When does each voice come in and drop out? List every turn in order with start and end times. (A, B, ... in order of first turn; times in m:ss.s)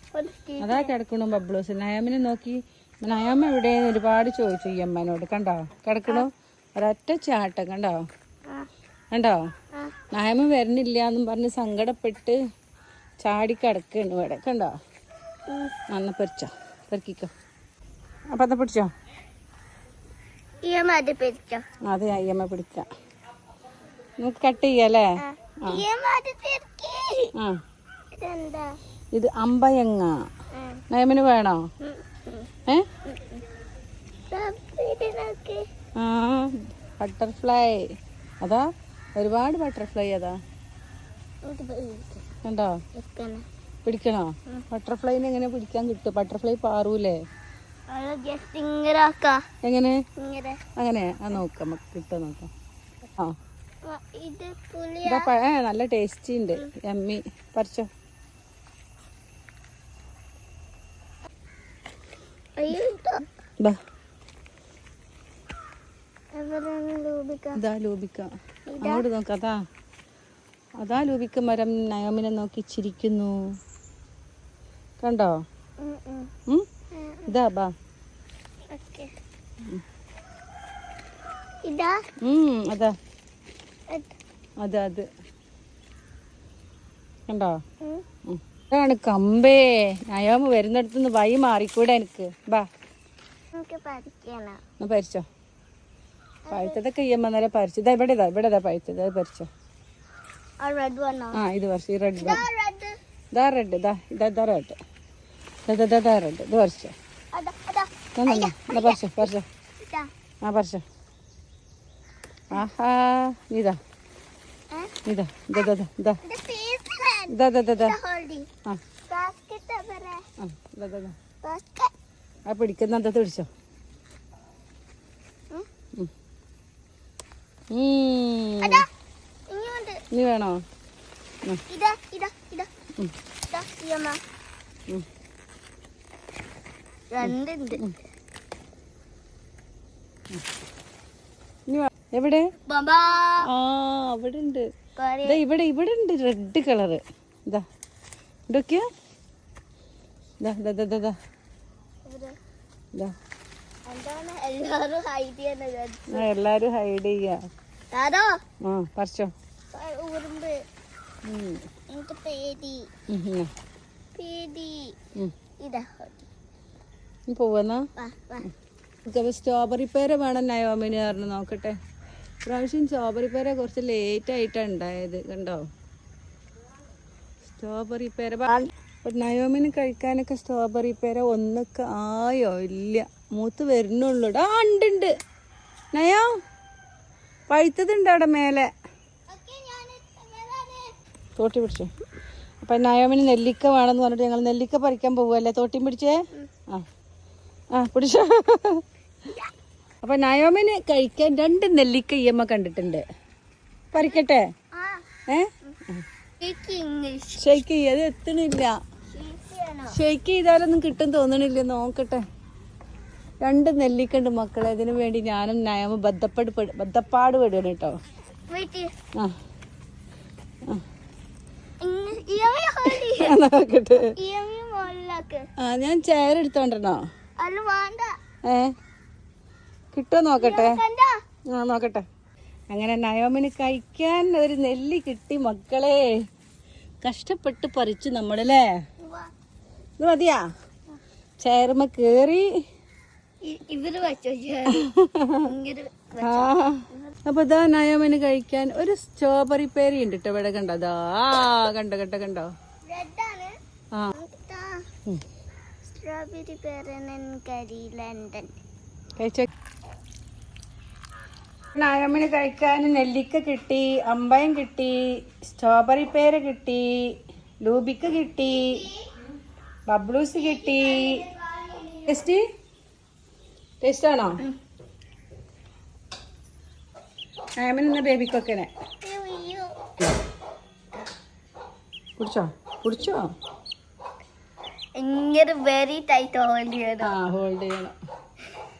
0:00.1-0:00.9 A
0:00.6-0:08.0 B
0:09.1-0:09.4 B
0:10.1-0:12.4 B
0:13.2-0:14.7 B
0:15.5-0:15.8 A
0:15.9-0:17.3 B
0:18.3-0:18.9 B
0:20.6-0:21.6 A
0:21.8-0:22.9 B
0:24.2-0:25.8 B
0:25.2-0:27.3 A
0:28.1-0:28.8 A
0:29.1-0:30.1 B
0:30.5-0:30.8 A
0:30.9-0:31.6 B
0:31.8-0:32.5 A
0:33.0-0:33.4 A
0:34.3-0:35.6 A
0:36.0-0:37.8 B
0:38.4-0:40.4 B
0:41.4-0:42.2 A
0:42.4-0:42.8 B
0:42.9-0:43.4 A
0:43.8-0:47.2 B
0:47.9-0:49.4 A
0:49.6-0:50.0 B
0:50.2-0:50.6 A
0:50.8-0:52.5 B
0:53.8-0:55.3 A
0:55.0-0:57.9 B
1:02.6-1:03.2 A
1:06.3-1:07.6 A
1:07.5-1:09.6 B
1:08.7-1:09.0 A
1:10.8-1:13.6 B
1:15.0-1:15.4 B
1:15.8-1:16.3 A
1:16.9-1:17.3 A
1:17.3-1:17.7 B
1:18.7-1:19.1 A
1:21.6-1:22.0 A
1:22.2-1:22.9 B
1:23.9-1:24.2 A
1:24.6-1:25.1 B
1:27.3-1:27.6 B
1:27.8-1:28.0 A
1:28.2-1:32.7 B
1:33.5-1:34.6 A
1:34.8-1:35.2 B
1:36.4-1:36.8 A
1:36.5-1:39.5 B
1:40.6-1:41.4 A
1:41.3-1:42.4 B
1:42.2-1:42.9 A
1:43.3-1:44.8 B
1:45.7-1:46.9 B
1:47.3-1:50.1 A
1:48.2-1:49.4 B
1:50.4-1:50.8 B
1:52.5-1:53.8 B
1:55.0-1:56.2 B
1:56.2-1:58.5 A
1:57.3-1:58.0 B
1:59.1-2:00.2 A
2:00.4-2:01.2 B
2:01.4-2:01.9 A
2:02.5-2:03.5 B
2:07.7-2:08.8 B
2:08.6-2:08.9 A
2:09.5-2:10.0 A
2:10.1-2:10.6 B
2:11.7-2:12.7 A
2:13.5-2:14.2 A
2:17.1-2:17.8 A
2:17.2-2:17.9 B
2:21.7-2:22.5 B
2:22.6-2:23.5 A
2:23.4-2:24.7 B
2:25.0-2:25.4 A
2:25.2-2:27.6 B
2:28.5-2:28.8 B
2:30.4-2:31.2 B
2:32.0-2:32.4 A
2:33.9-2:36.3 A
2:36.1-2:37.4 B
2:37.9-2:38.4 A
2:38.6-2:39.3 B
2:39.7-2:40.6 A
2:41.2-2:41.6 B
2:41.9-2:42.9 A
2:43.1-2:43.5 B
2:44.1-2:45.0 A
2:45.6-2:46.3 A
2:47.3-2:47.8 B
2:48.0-2:48.5 A
2:49.0-2:51.8 B
2:52.4-2:55.7 B
2:57.4-3:05.1 B
3:05.9-3:06.3 B
3:07.5-3:08.7 B
3:09.3-3:10.9 A
3:11.4-3:11.9 B
3:12.6-3:16.8 B
3:17.7-3:18.8 B
3:20.0-3:23.0 B
3:23.9-3:24.5 B
3:24.7-3:25.0 A
3:25.3-3:26.0 B
3:26.4-3:27.4 A
3:27.4-3:28.8 B
3:29.1-3:30.0 A
3:29.9-3:32.2 B
3:33.4-3:37.9 B
3:38.5-3:38.9 A
3:41.8-3:43.4 A
3:42.9-3:44.1 B
3:44.1-3:45.4 A
3:45.6-3:47.0 B
3:47.4-3:48.1 A
3:48.5-3:48.7 B
3:49.9-3:50.8 B
3:50.4-3:51.1 A
3:51.5-3:52.0 B
3:52.7-3:56.0 B
3:57.0-3:58.7 B
3:59.0-3:59.3 A
4:00.0-4:00.4 B
4:01.4-4:02.4 B
4:03.4-4:04.9 A
4:04.7-4:05.5 B
4:05.4-4:07.2 A
4:06.2-4:12.5 B
4:12.8-4:13.6 A
4:14.1-4:14.8 A
4:15.8-4:18.6 A
4:19.2-4:19.5 B
4:21.7-4:28.8 B
4:28.4-4:29.1 A
4:29.9-4:31.2 B
4:30.4-4:32.3 A
4:32.1-4:32.4 B
4:33.8-4:34.4 B
4:37.6-4:38.7 B
4:39.0-4:39.7 A
4:42.2-4:43.3 B
4:45.0-4:47.1 A
4:47.0-4:47.9 B